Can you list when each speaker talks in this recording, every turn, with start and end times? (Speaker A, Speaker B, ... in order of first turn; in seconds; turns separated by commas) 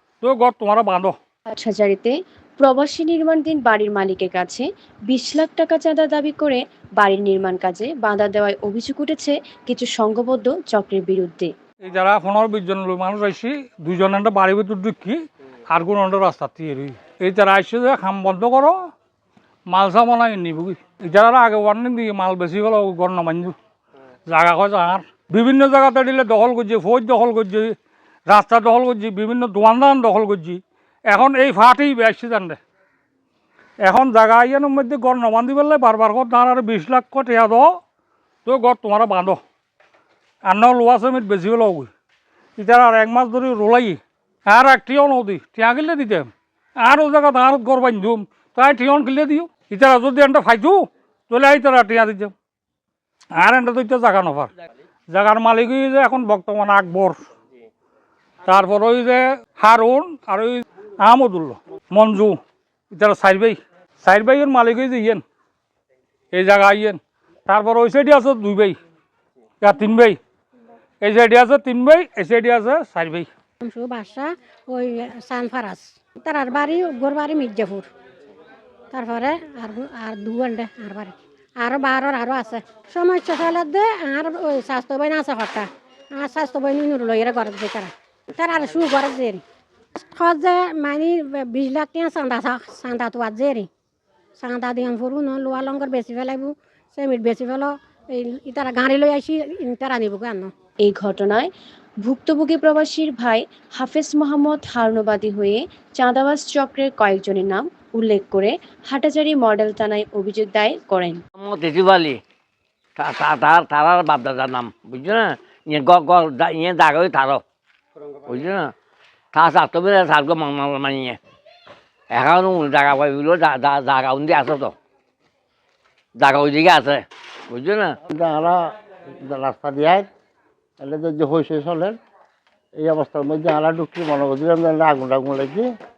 Speaker A: 0.2-1.1, Speaker B: 1.5-11.5, Speaker A: 11.8-18.8, Speaker A: 19.7-23.6, Speaker A: 24.3-27.8, Speaker A: 28.3-32.6, Speaker A: 33.8-37.8, Speaker A: 38.5-39.4, Speaker A: 40.5-41.9, Speaker A: 42.6-52.3, Speaker A: 53.4-54.5, Speaker A: 55.1-57.2, Speaker A: 58.5-62.4, Speaker A: 62.9-65.2, Speaker A: 66.3-68.8, Speaker A: 69.6-70.2, Speaker A: 71.0-73.3, Speaker C: 73.6-77.9, Speaker C: 78.9-89.4, Speaker C: 90.0-93.7, Speaker C: 94.4-100.5, Speaker B: 100.8-101.5, Speaker B: 102.0-111.2, Speaker D: 111.4-112.2, Speaker D: 113.0-117.4, Speaker D: 118.3-118.7, Speaker D: 119.3-121.2, Speaker D: 122.1-124.8, Speaker D: 126.2-128.0, Speaker E: 128.1-130.1, Speaker E: 130.8-132.0, Speaker E: 132.8-135.7